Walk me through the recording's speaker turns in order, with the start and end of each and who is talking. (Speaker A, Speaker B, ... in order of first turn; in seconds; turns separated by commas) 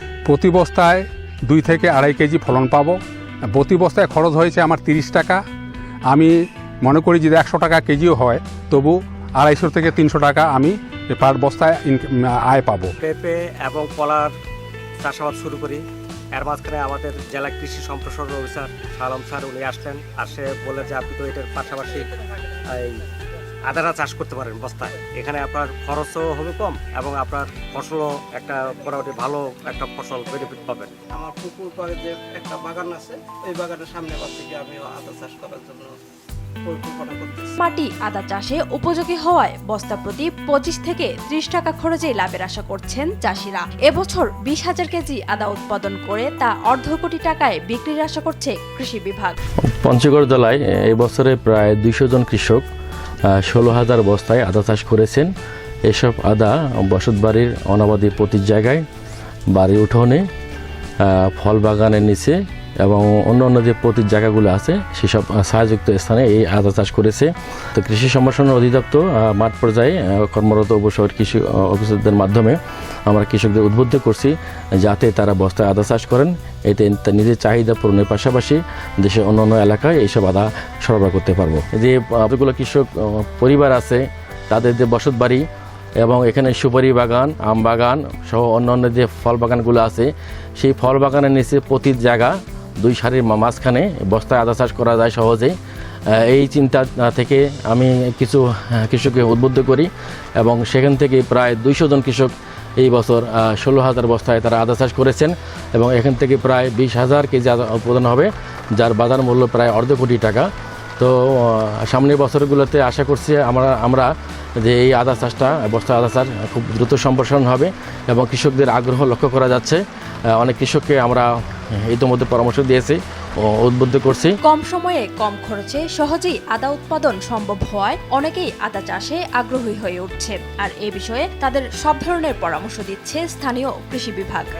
Speaker A: 0.2-5.5, Speaker A: 6.0-12.9, Speaker B: 13.0-14.3, Speaker B: 15.0-15.8, Speaker B: 16.4-22.1, Speaker B: 22.7-23.0, Speaker B: 23.7-31.0, Speaker C: 31.1-36.0, Speaker C: 36.7-37.5, Speaker D: 37.6-49.4, Speaker E: 49.7-52.6, Speaker E: 53.3-55.3, Speaker E: 55.9-58.8, Speaker E: 59.5-60.2, Speaker E: 61.0-85.4, Speaker E: 86.0-95.5, Speaker E: 96.2-110.5, Speaker E: 111.0-114.1, Speaker E: 114.6-119.8, Speaker E: 120.3-121.3, Speaker E: 121.8-124.4, Speaker D: 124.4-134.5